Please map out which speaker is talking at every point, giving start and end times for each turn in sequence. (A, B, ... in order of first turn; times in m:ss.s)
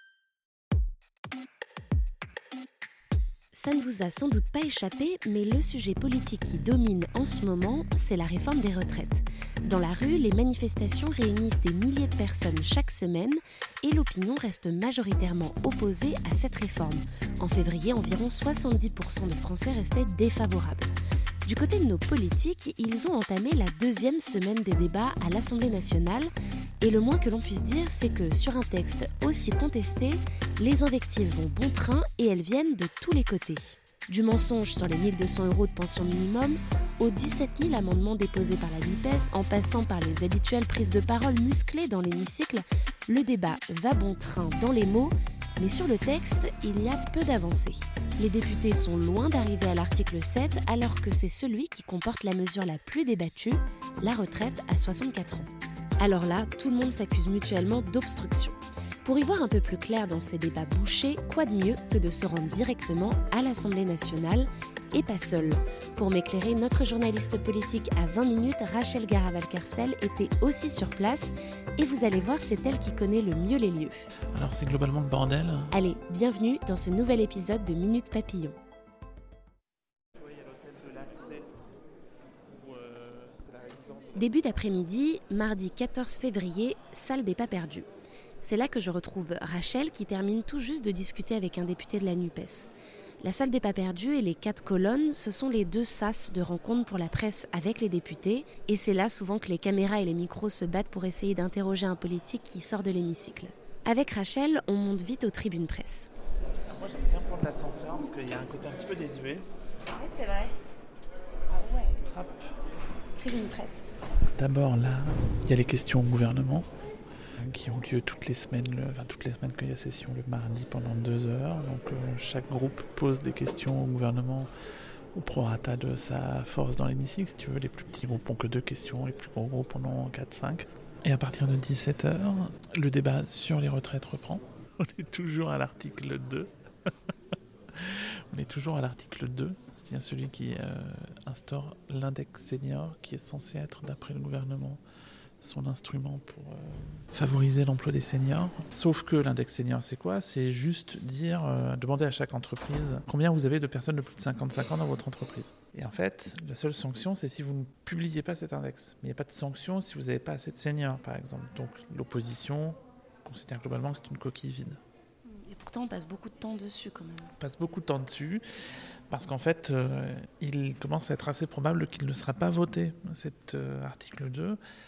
0:03.5-0:20.9 A
0:21.4-0:26.3 A
0:26.8-1:14.0 A
1:14.3-1:15.7 B
1:15.7-1:18.6 A
1:20.2-1:21.6 B
1:22.5-1:24.2 B
1:24.2-1:27.9 A
1:28.4-1:46.1 A
1:46.7-1:49.5 B
1:50.0-1:50.5 A
1:52.1-1:52.5 B
1:53.2-1:53.9 A
1:54.4-1:56.7 B
1:57.4-2:04.5 B
2:05.2-2:16.5 B
2:17.8-2:24.8 B
2:25.4-2:44.8 B
2:45.3-2:47.3 A
2:47.4-2:48.4 B
2:49.1-2:54.6 B